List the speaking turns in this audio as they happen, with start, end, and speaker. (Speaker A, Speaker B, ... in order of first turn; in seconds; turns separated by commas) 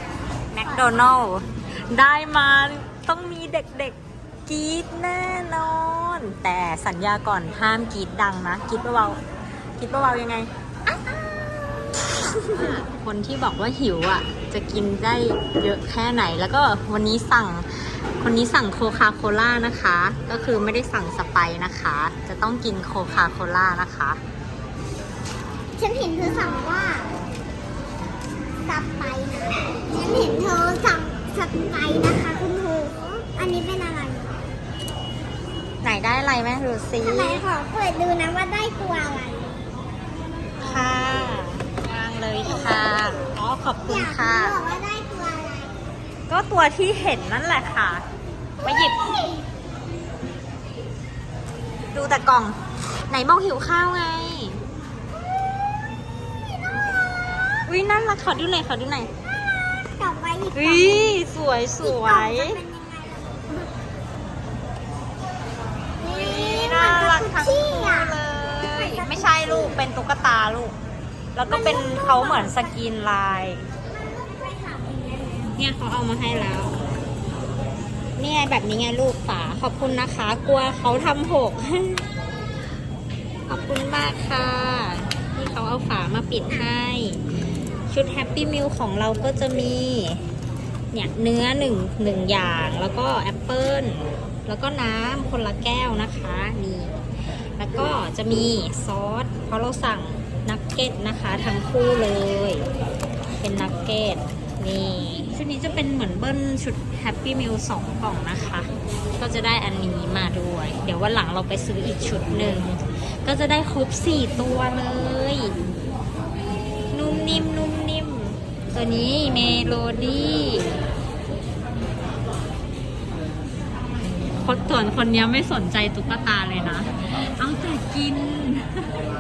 Speaker A: 0.5-9.2, Speaker B: 0.6-1.1, Speaker A: 9.8-10.5, Speaker B: 10.9-12.8, Speaker A: 12.5-24.2, Speaker B: 25.8-27.1, Speaker B: 28.7-34.4, Speaker A: 35.8-37.4, Speaker B: 37.0-39.6, Speaker A: 40.6-44.6, Speaker B: 42.4-45.8, Speaker A: 46.3-48.0, Speaker A: 48.6-49.0, Speaker B: 49.0-49.2, Speaker A: 51.9-52.6, Speaker A: 53.1-54.6, Speaker A: 57.7-59.1, Speaker B: 60.0-61.2, Speaker A: 60.5-62.6, Speaker B: 61.8-63.7, Speaker B: 66.0-69.8, Speaker A: 66.0-70.8, Speaker A: 71.3-73.6, Speaker B: 71.5-72.8, Speaker B: 73.9-75.6, Speaker A: 75.6-76.8, Speaker A: 78.2-82.1, Speaker A: 83.5-87.2, Speaker A: 87.9-90.2, Speaker A: 90.9-97.0, Speaker A: 97.6-102.7, Speaker A: 103.4-115.5, Speaker A: 116.9-120.8, Speaker A: 124.4-128.9